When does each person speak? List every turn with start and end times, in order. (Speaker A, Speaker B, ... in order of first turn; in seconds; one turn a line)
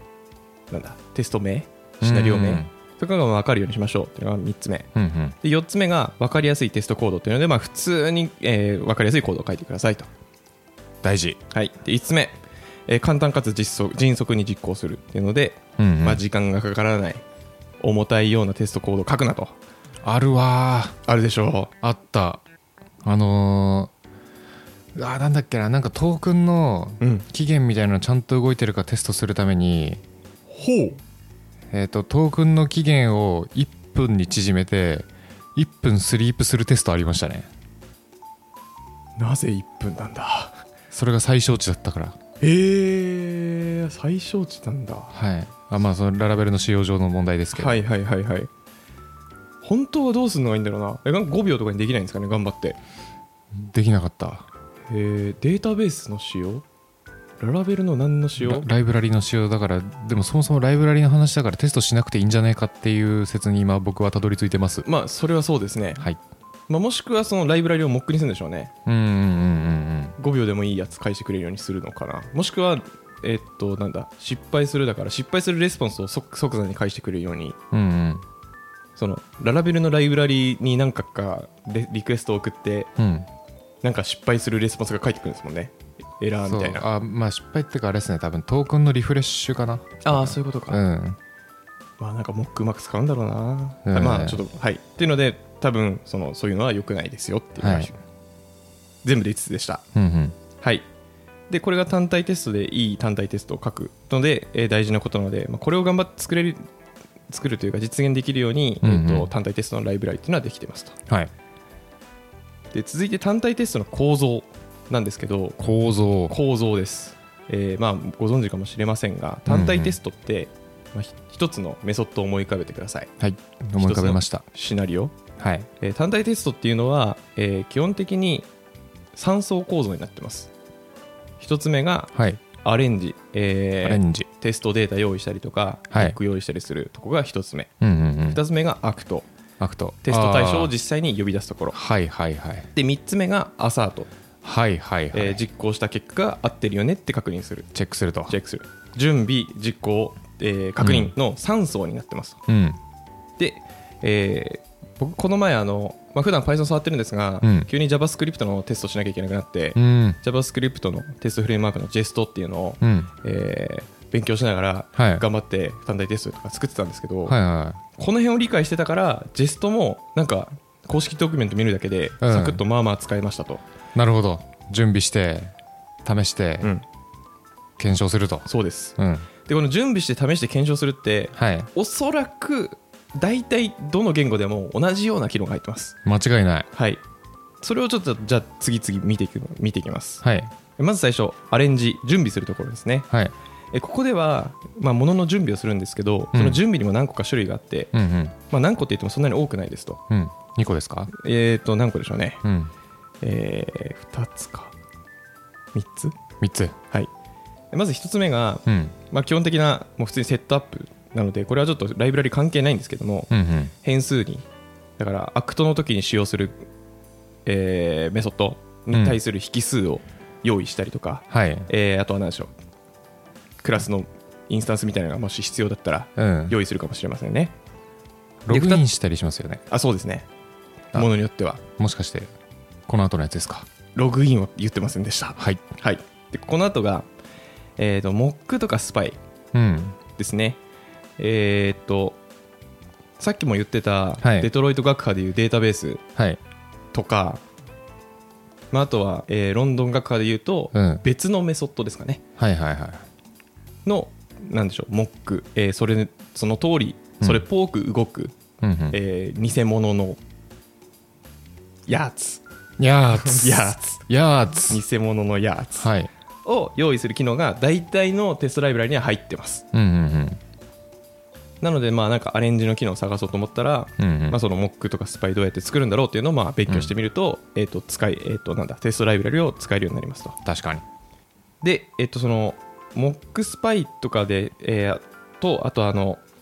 Speaker A: 0.7-4.9
Speaker B: 2.0-2.7
Speaker B: 4.9-5.3
Speaker A: 5.4-10.1
Speaker B: 11.0-11.4
Speaker A: 11.5-17.2
Speaker B: 15.8-16.2
Speaker A: 17.8-19.5
Speaker B: 20.0-21.0
Speaker A: 21.1-21.7
Speaker B: 21.8-22.4
Speaker B: 23.0-23.9
Speaker B: 24.9-30.0
Speaker A: 27.0-27.2
Speaker A: 30.5-31.0
Speaker B: 31.7-37.5
Speaker A: 39.2-40.6
Speaker B: 40.9-42.2
Speaker A: 42.4-45.1
Speaker B: 45.1-47.8
Speaker A: 47.5-48.5
Speaker A: 49.6-52.8
Speaker B: 53.5-54.5
Speaker A: 54.9-56.6
Speaker A: 57.4-58.6
Speaker B: 58.4-64.8
Speaker A: 64.8-66.0
Speaker A: 66.7-68.7
Speaker B: 68.8-70.1
Speaker A: 70.2-77.6
Speaker B: 77.7-78.2
Speaker A: 79.0-82.9
Speaker B: 83.0-83.3
Speaker A: 83.8-86.8
Speaker B: 86.5-91.2
Speaker A: 90.0-90.8
Speaker A: 92.0-98.0
Speaker B: 93.8-94.4
Speaker B: 97.6-97.9
Speaker A: 99.0-99.8
Speaker B: 99.9-100.3
Speaker A: 100.6-100.9
Speaker A: 101.5-106.6
Speaker A: 107.3-111.0
Speaker B: 108.8-109.3
Speaker A: 112.7-115.6
Speaker B: 115.6-116.3
Speaker A: 116.3-123.1
Speaker B: 119.5-120.0
Speaker B: 123.2-124.4
Speaker A: 123.8-125.1
Speaker B: 125.4-125.7
Speaker A: 125.8-128.5
Speaker A: 129.1-130.5
Speaker A: 131.4-137.7
Speaker B: 132.1-132.4
Speaker B: 133.8-134.3
Speaker B: 135.9-136.2
Speaker B: 137.8-138.4
Speaker A: 138.3-139.3
Speaker B: 139.6-140.7
Speaker A: 140.0-141.8
Speaker B: 141.7-142.7
Speaker A: 142.7-144.1
Speaker B: 144.4-145.4
Speaker A: 145.1-147.7
Speaker B: 147.7-148.3
Speaker A: 148.3-152.4
Speaker B: 150.8-151.1
Speaker B: 152.5-152.8
Speaker A: 153.4-167.3
Speaker B: 157.4-157.7
Speaker B: 159.8-160.2
Speaker B: 162.8-163.1
Speaker B: 164.9-165.2
Speaker B: 167.2-167.8
Speaker A: 168.0-173.6
Speaker B: 172.2-172.6
Speaker B: 173.9-175.5
Speaker B: 176.0-176.7
Speaker B: 177.8-179.3
Speaker A: 178.5-185.9
Speaker B: 181.3-181.7
Speaker B: 186.0-186.7
Speaker A: 186.7-187.0
Speaker A: 187.6-190.2
Speaker B: 190.2-190.5
Speaker A: 190.8-193.1
Speaker A: 193.7-197.9
Speaker B: 196.3-196.6
Speaker B: 197.9-198.3
Speaker A: 198.5-200.0
Speaker B: 200.1-201.1
Speaker A: 201.1-202.4
Speaker B: 202.4-202.7
Speaker A: 203.2-204.7
Speaker A: 205.7-206.2
Speaker B: 206.4-206.7
Speaker A: 207.7-214.4
Speaker B: 208.7-208.9
Speaker B: 213.3-213.7
Speaker A: 215.0-216.7
Speaker A: 217.4-222.5
Speaker B: 218.9-219.2
Speaker B: 221.3-221.7
Speaker A: 223.6-227.5
Speaker B: 226.2-226.6
Speaker B: 228.4-229.6
Speaker A: 228.5-228.8
Speaker A: 229.7-230.3
Speaker A: 230.9-231.6
Speaker B: 231.8-232.3
Speaker B: 232.9-233.7
Speaker A: 233.9-237.1
Speaker A: 237.8-239.2
Speaker B: 239.5-240.0
Speaker A: 240.2-240.6
Speaker A: 241.2-242.2
Speaker A: 243.2-246.0
Speaker B: 244.2-244.5
Speaker A: 246.9-247.4
Speaker A: 248.7-252.2
Speaker B: 250.7-251.0
Speaker B: 252.4-253.1
Speaker A: 253.8-258.3
Speaker B: 258.6-259.0
Speaker A: 258.9-260.2
Speaker A: 261.9-262.4
Speaker B: 262.8-264.8
Speaker A: 263.2-264.0
Speaker A: 264.7-265.9
Speaker B: 265.8-266.1
Speaker A: 266.4-269.6
Speaker B: 269.7-270.4
Speaker A: 271.6-280.4
Speaker B: 274.0-274.4
Speaker B: 276.7-276.9
Speaker B: 280.4-280.8
Speaker A: 281.6-286.2